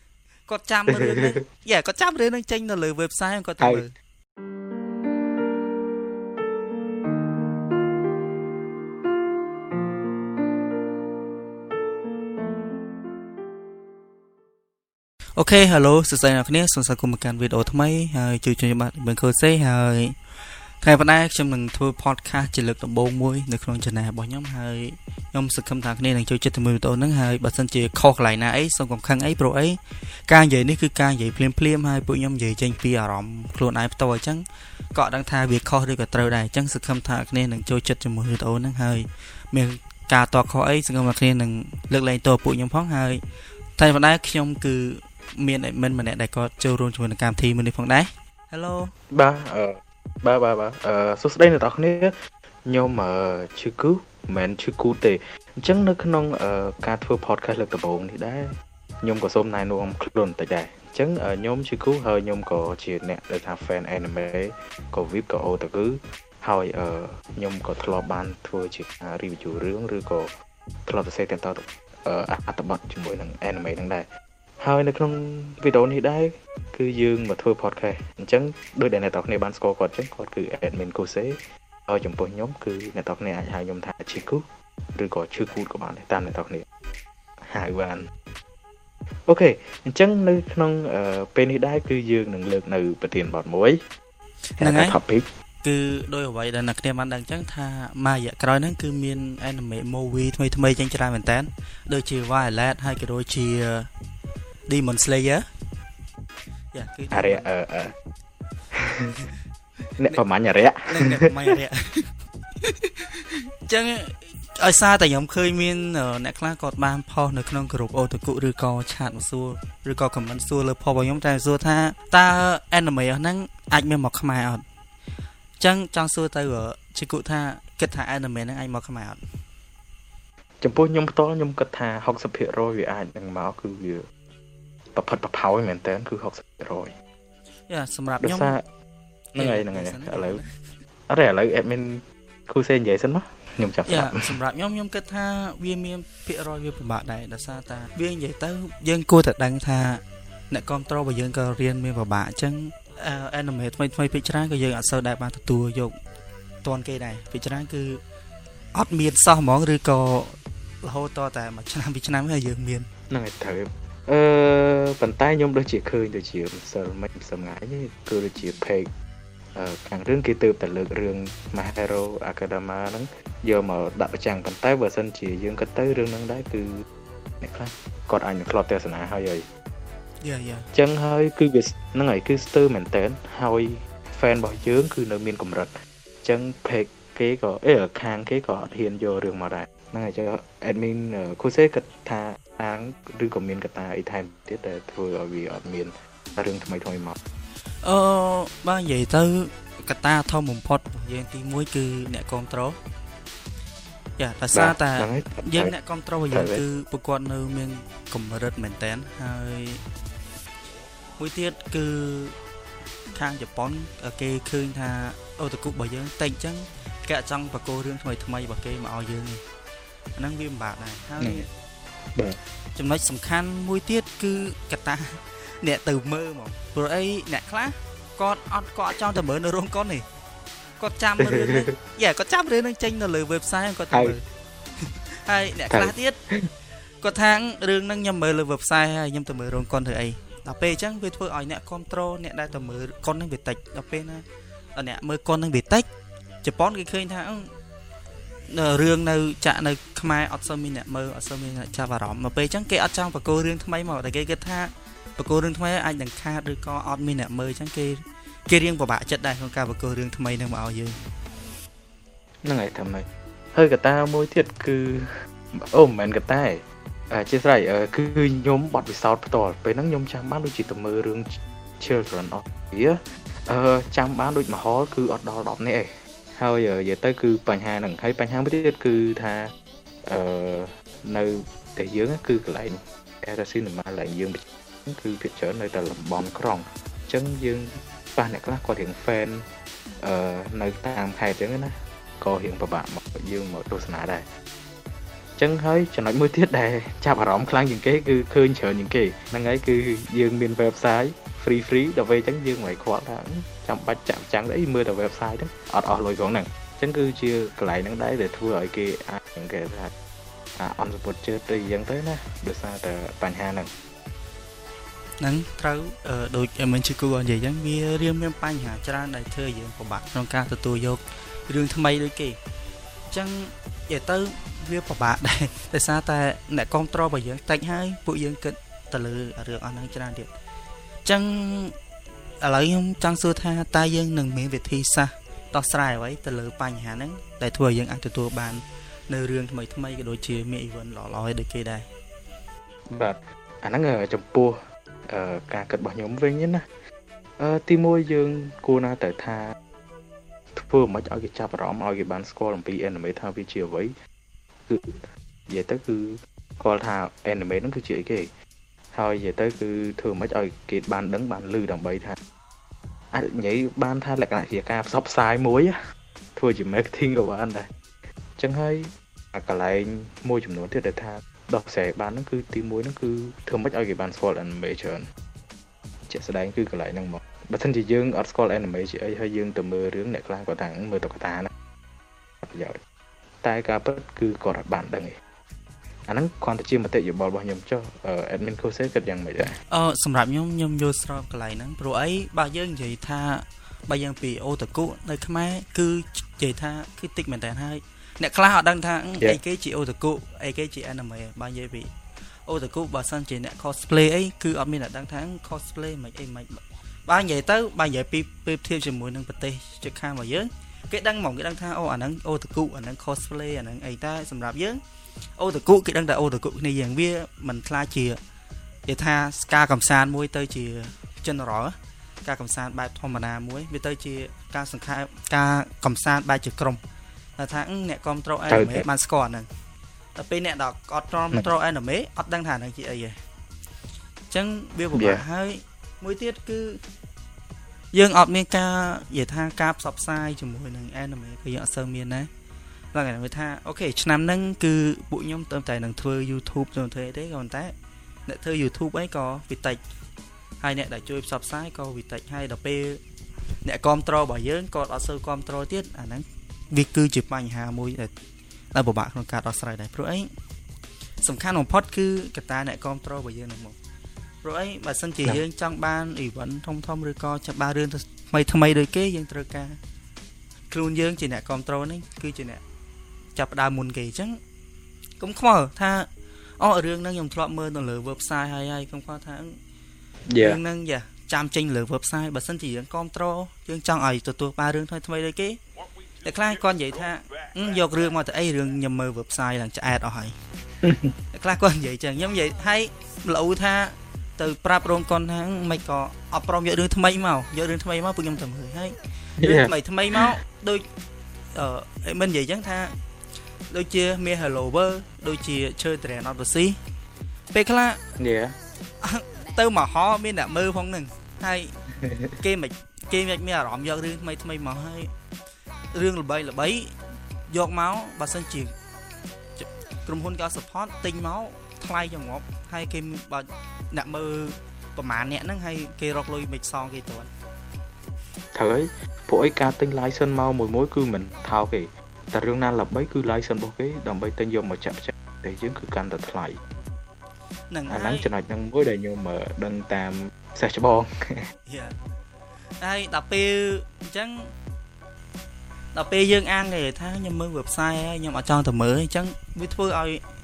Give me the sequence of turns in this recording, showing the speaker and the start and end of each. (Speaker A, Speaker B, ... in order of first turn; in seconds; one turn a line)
Speaker A: 0.5-3.9
Speaker B: 0.9-1.4
Speaker B: 3.6-3.9
Speaker A: 15.4-20.2
Speaker A: 20.8-43.2
Speaker A: 43.8-48.9
Speaker B: 49.1-49.7
Speaker B: 50.2-52.1
Speaker B: 52.7-58.5
Speaker B: 59.0-70.3
Speaker B: 70.9-74.0
Speaker B: 74.6-84.4
Speaker B: 85.0-86.7
Speaker B: 87.5-88.0
Speaker B: 89.3-93.8
Speaker A: 94.6-95.0
Speaker B: 94.6-95.3
Speaker A: 95.6-103.9
Speaker A: 104.7-105.5
Speaker A: 106.7-107.5
Speaker B: 107.1-107.9
Speaker B: 108.8-109.2
Speaker A: 108.9-109.3
Speaker B: 110.0-111.5
Speaker A: 110.9-112.1
Speaker A: 112.6-124.6
Speaker A: 125.6-129.2
Speaker B: 130.6-134.0
Speaker B: 134.9-136.9
Speaker A: 137.7-138.6
Speaker B: 138.2-138.6
Speaker A: 139.3-140.5
Speaker B: 139.4-140.4
Speaker B: 141.1-144.3
Speaker A: 143.9-156.0
Speaker A: 156.6-158.0
Speaker A: 158.8-162.9
Speaker B: 163.1-168.9
Speaker B: 169.6-176.8
Speaker B: 177.4-179.4
Speaker A: 180.2-180.7
Speaker B: 180.7-185.7
Speaker B: 186.2-197.2
Speaker A: 197.8-202.8
Speaker A: 204.2-209.8
Speaker B: 204.5-205.7
Speaker B: 206.3-206.6
Speaker A: 211.2-212.4
Speaker A: 213.1-219.4
Speaker A: 220.2-221.5
Speaker B: 221.2-221.5
Speaker A: 222.8-230.1
Speaker A: 230.8-234.2
Speaker B: 231.2-231.8
Speaker A: 234.8-236.2
Speaker B: 235.7-236.4
Speaker A: 237.0-244.2
Speaker A: 244.8-245.9
Speaker A: 246.4-247.5
Speaker A: 248.5-261.0
Speaker B: 262.4-265.1
Speaker B: 265.6-279.5
Speaker B: 280.1-289.4
Speaker B: 290.0-294.2
Speaker B: 295.4-309.9
Speaker B: 310.6-313.7
Speaker A: 315.2-322.4
Speaker A: 323.1-330.3
Speaker A: 331.0-331.8
Speaker A: 332.4-341.9
Speaker B: 342.9-344.6
Speaker B: 345.1-346.6
Speaker B: 347.4-349.6
Speaker B: 350.6-353.9
Speaker B: 354.7-355.0
Speaker B: 355.5-358.3
Speaker B: 358.9-362.2
Speaker B: 363.1-365.8
Speaker B: 366.4-367.7
Speaker B: 368.4-375.1
Speaker B: 376.1-381.5
Speaker B: 382.4-382.8
Speaker B: 383.4-385.2
Speaker B: 386.1-389.5
Speaker A: 389.7-401.9
Speaker A: 402.5-414.8
Speaker A: 415.4-418.2
Speaker A: 418.9-426.8
Speaker A: 427.4-429.5
Speaker B: 428.5-428.9
Speaker A: 430.2-433.2
Speaker A: 434.3-436.8
Speaker B: 434.9-435.2
Speaker A: 437.9-442.3
Speaker A: 442.9-447.8
Speaker A: 448.3-449.8
Speaker A: 450.6-453.0
Speaker A: 453.6-458.1
Speaker A: 458.7-460.3
Speaker A: 461.2-463.8
Speaker A: 464.4-469.8
Speaker A: 470.7-472.6
Speaker A: 473.4-474.4
Speaker A: 475.2-476.1
Speaker A: 476.6-479.6
Speaker B: 480.3-480.6
Speaker A: 480.4-485.6
Speaker A: 486.2-490.4
Speaker B: 490.8-491.1
Speaker A: 491.3-500.8
Speaker B: 499.4-500.3
Speaker A: 501.5-502.9
Speaker A: 503.7-506.8
Speaker A: 507.5-508.0
Speaker B: 508.2-508.5
Speaker A: 509.0-511.7
Speaker B: 512.0-512.4
Speaker A: 512.4-515.1
Speaker A: 515.9-516.9
Speaker A: 517.5-518.7
Speaker A: 519.6-527.3
Speaker B: 528.5-536.6
Speaker A: 537.7-538.3
Speaker B: 537.9-541.1
Speaker A: 541.7-542.0
Speaker A: 542.8-544.5
Speaker A: 545.9-550.2